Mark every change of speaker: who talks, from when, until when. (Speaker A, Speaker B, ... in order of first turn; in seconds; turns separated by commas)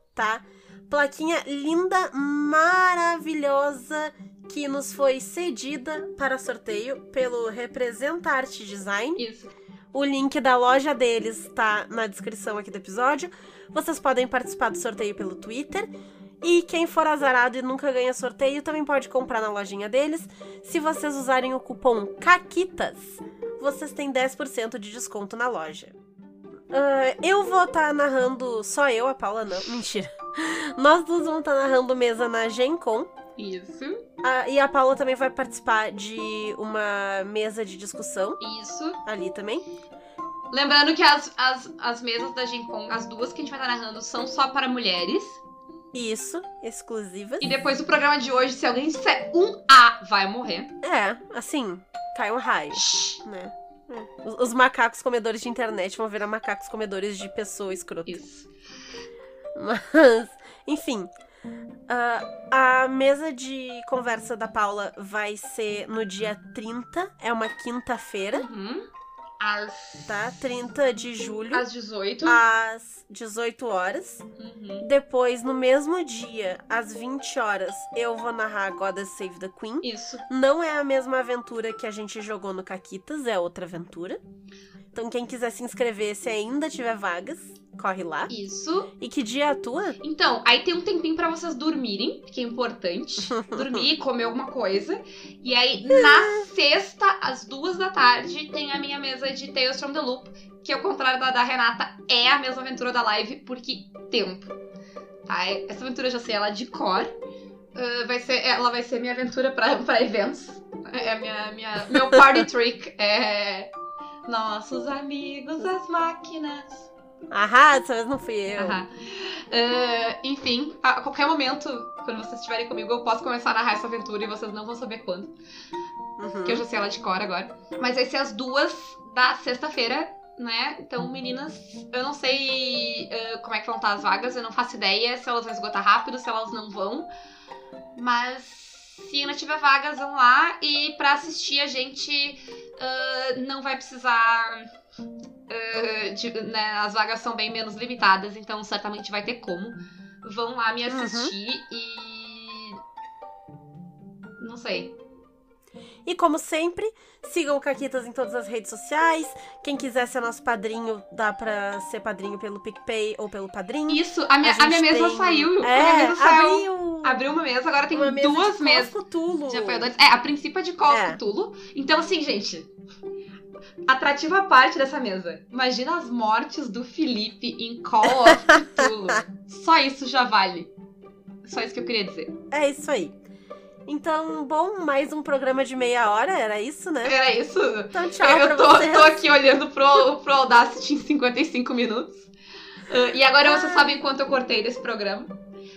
Speaker A: 0.1-9.2, Speaker B: 9.2-9.5, Speaker A: 9.9-15.9, Speaker A: 16.4-25.9, Speaker A: 26.7-33.1, Speaker B: 33.4-34.0, Speaker A: 34.2-38.4, Speaker B: 38.4-39.0, Speaker A: 39.0-39.6, Speaker B: 40.5-45.4, Speaker A: 45.9-47.6, Speaker B: 47.4-50.7, Speaker A: 50.8-58.2, Speaker B: 52.7-53.2, Speaker B: 58.1-58.5, Speaker A: 59.5-61.1, Speaker A: 61.9-68.5, Speaker B: 68.3-68.9, Speaker B: 69.4-70.3, Speaker A: 70.1-71.6, Speaker B: 71.5-72.4, Speaker A: 72.2-74.2, Speaker B: 74.4-74.9, Speaker A: 74.8-84.2, Speaker B: 79.8-80.2, Speaker A: 84.9-88.3, Speaker B: 88.3-88.9, Speaker A: 89.0-90.0, Speaker B: 90.0-104.5, Speaker A: 93.3-93.8, Speaker A: 95.9-96.5, Speaker B: 105.2-107.1, Speaker B: 107.8-113.7, Speaker B: 114.3-116.9, Speaker A: 117.3-118.8, Speaker B: 118.6-125.3, Speaker A: 126.2-126.6, Speaker B: 126.4-137.1, Speaker B: 137.9-144.7, Speaker B: 145.5-152.8, Speaker A: 150.9-151.3, Speaker B: 154.4-154.9, Speaker A: 156.1-167.2, Speaker B: 163.9-168.9, Speaker A: 167.9-169.9, Speaker B: 169.5-172.7, Speaker A: 170.9-171.2, Speaker B: 173.9-180.7, Speaker A: 178.1-179.2, Speaker B: 181.4-182.3, Speaker A: 182.5-183.1, Speaker A: 183.8-187.2, Speaker B: 187.0-192.3, Speaker A: 187.9-189.2, Speaker B: 192.8-195.3, Speaker A: 193.4-193.9